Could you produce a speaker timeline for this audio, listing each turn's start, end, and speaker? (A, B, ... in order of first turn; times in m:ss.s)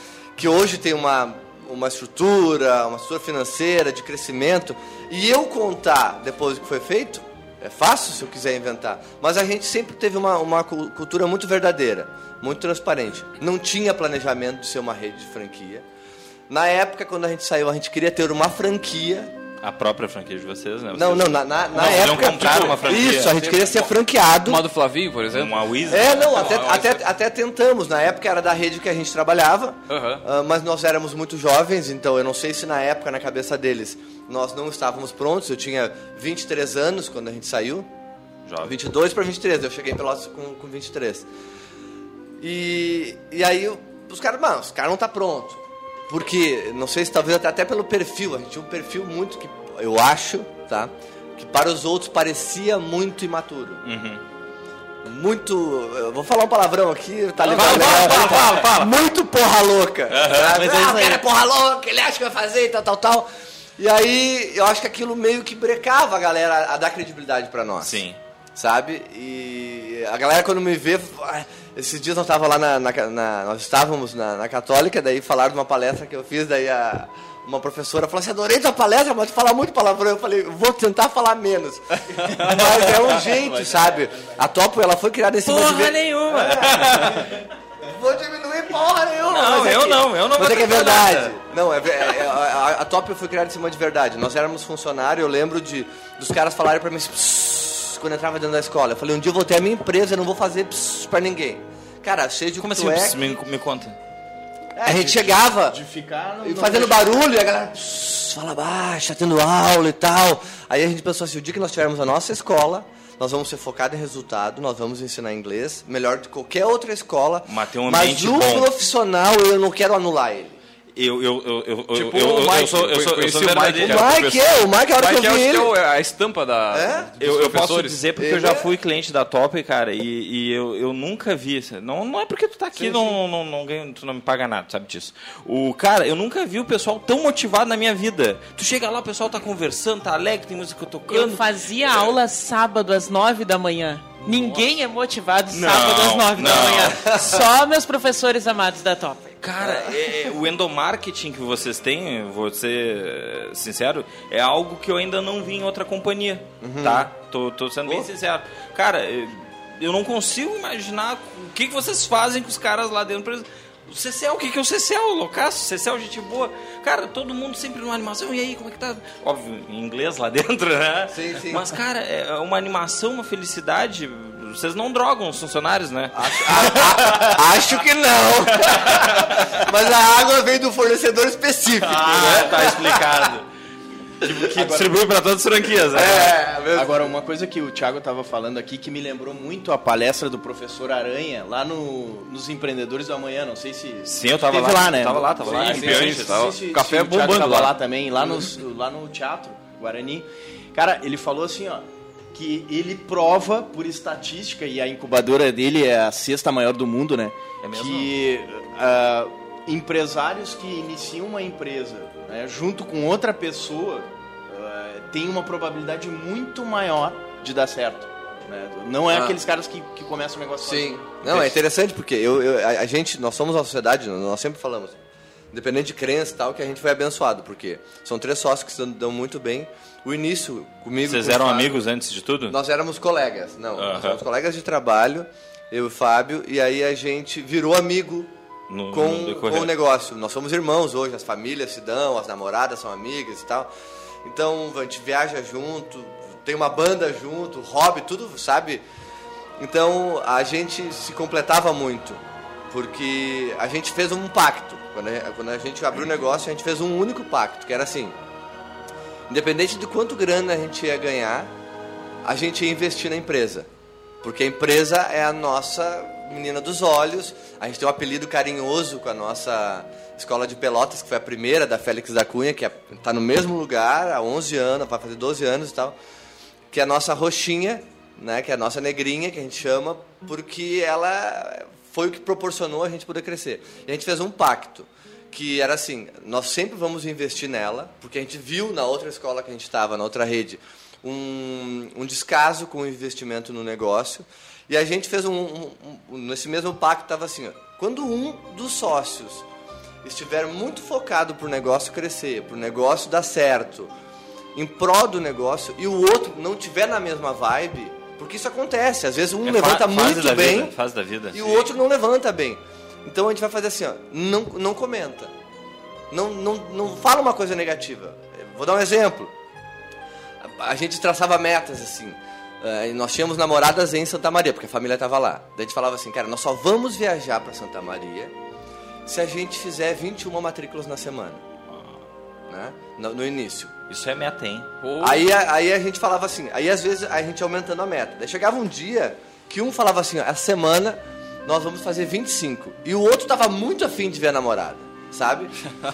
0:00.4-0:15.8 A
0:16.5-0:19.3 A
0:19.6-0:23.8 B
0:20.9-0:24.6 A
0:21.8-0:23.9 C
0:24.4-0:27.0 C
0:25.3-0:26.6 B
0:25.9-0:37.9 A
0:29.9-0:30.2 C
0:38.5-0:38.7 B
0:38.6-0:41.3 A
0:42.4-0:53.8 A
0:53.8-0:54.2 B
0:55.0-1:08.0 A
0:57.4-0:58.9 B
1:00.1-1:01.2 B
1:07.8-1:08.2 B
1:08.6-1:43.2 A
1:23.3-1:23.9 D
1:25.4-1:27.3 B
1:29.3-1:31.4 B
1:42.6-1:44.0 B
1:44.8-1:45.8 A
1:44.9-1:47.2 D
1:46.4-2:00.6 A
1:57.5-1:58.7 B
2:00.9-2:04.1 B
2:01.9-2:08.0 C
2:03.8-2:05.7 A
2:06.7-2:07.1 A
2:07.2-2:22.2 B
2:08.2-2:08.7 A
2:12.8-2:13.1 C
2:21.1-2:29.4 E
2:24.2-2:24.7 B
2:25.5-2:27.4 B
2:29.4-2:57.4 B
2:29.6-2:30.0 A
2:36.6-2:37.1 A
2:51.1-2:51.7 A
2:56.1-3:03.3 A
2:58.7-2:59.4 B
3:01.8-3:03.5 B
3:04.2-3:06.4 B
3:04.3-3:04.9 A
3:05.9-3:07.1 A
3:06.8-3:41.5 D
3:14.1-3:16.5 B
3:15.5-3:17.8 C
3:27.6-3:28.1 B
3:40.6-3:45.0 A
3:45.5-3:51.8 A
3:51.1-3:52.6 B
3:52.5-3:58.3 A
3:53.8-3:54.2 B
3:58.7-3:59.7 B
3:58.9-4:03.7 A
4:04.2-4:08.8 A
4:09.6-4:18.2 A
4:19.3-4:21.5 A
4:22.2-4:23.7 A
4:24.2-4:36.0 A
4:36.7-4:59.4 A
5:00.0-5:03.9 A
5:04.6-5:10.7 A
5:09.4-5:11.7 B
5:11.3-5:15.3 A
5:16.1-5:19.3 A
5:20.4-5:28.3 A
5:29.1-5:31.4 A
5:31.7-5:32.0 B
5:32.5-5:33.7 A
5:33.9-5:34.7 B
5:34.8-5:35.2 C
5:35.0-5:45.6 A